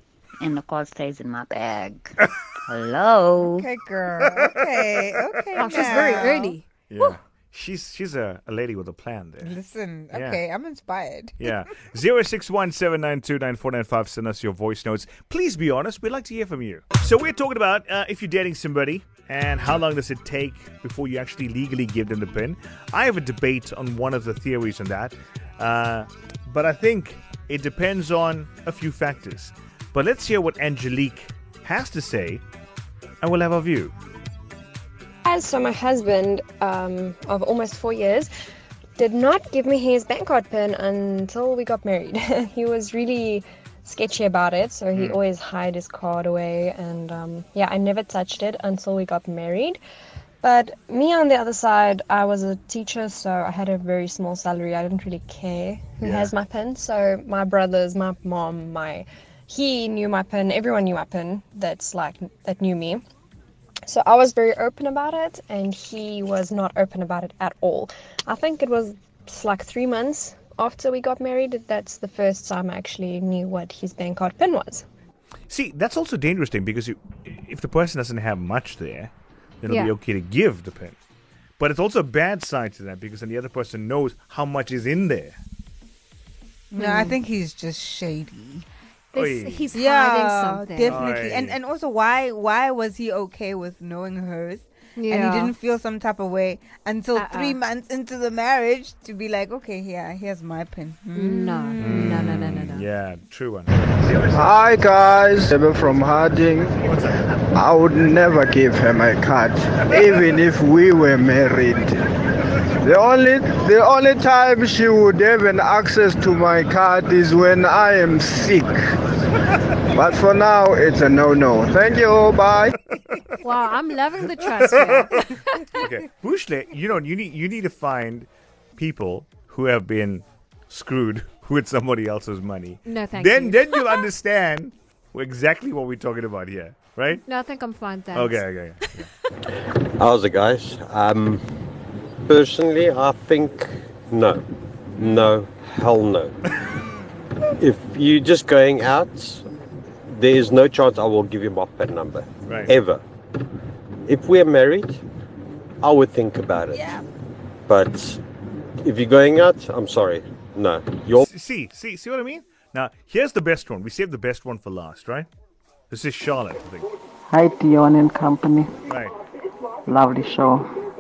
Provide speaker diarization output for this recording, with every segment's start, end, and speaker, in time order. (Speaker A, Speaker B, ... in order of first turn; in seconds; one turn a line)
Speaker A: 0.4-3.6
Speaker B: 3.4-6.5
Speaker C: 4.2-4.6
Speaker D: 5.5-7.1
Speaker C: 5.7-6.2
Speaker C: 6.9-9.5
Speaker B: 9.4-11.5
Speaker C: 10.1-10.4
Speaker C: 11.4-32.4
Speaker C: 33.2-33.9
Speaker E: 35.2-38.3
Speaker E: 39.0-49.8
Speaker E: 50.4-63.0
Speaker C: 56.0-56.3
Speaker E: 63.9-74.8
Speaker C: 75.5-79.1
Speaker C: 79.6-81.0
Speaker D: 79.7-79.9
Speaker C: 81.6-85.4
Speaker B: 86.7-88.7
Speaker D: 86.8-87.2
Speaker D: 89.1-91.1
Speaker C: 89.1-89.8
Speaker B: 89.7-101.9
Speaker C: 90.9-91.6
Speaker D: 95.0-95.5
Speaker D: 97.1-97.6
Speaker D: 101.1-102.8
Speaker C: 101.8-104.7
Speaker F: 104.3-106.7
Speaker C: 106.8-107.4
Speaker F: 107.5-112.0
Speaker F: 112.8-118.8
Speaker F: 119.9-122.7
Speaker D: 123.4-125.9
Speaker C: 124.5-125.1
Speaker C: 125.8-137.2
Speaker D: 132.8-134.1
Speaker D: 137.1-139.1
Speaker C: 138.1-139.1
Speaker G: 139.7-141.4
Speaker G: 142.2-144.4
Speaker G: 144.9-146.3
Speaker B: 145.0-145.3
Speaker B: 146.8-147.3
Speaker G: 147.6-149.4
Speaker G: 150.1-153.0
Speaker C: 152.5-152.7
Speaker G: 154.1-155.0
Speaker G: 155.8-156.9
Speaker B: 156.7-157.0
Speaker G: 157.7-158.2
Speaker G: 158.8-161.3
Speaker C: 161.2-165.3
Speaker C: 165.9-166.9
Speaker H: 167.3-168.7
Speaker C: 168.9-169.1
Speaker H: 169.9-170.6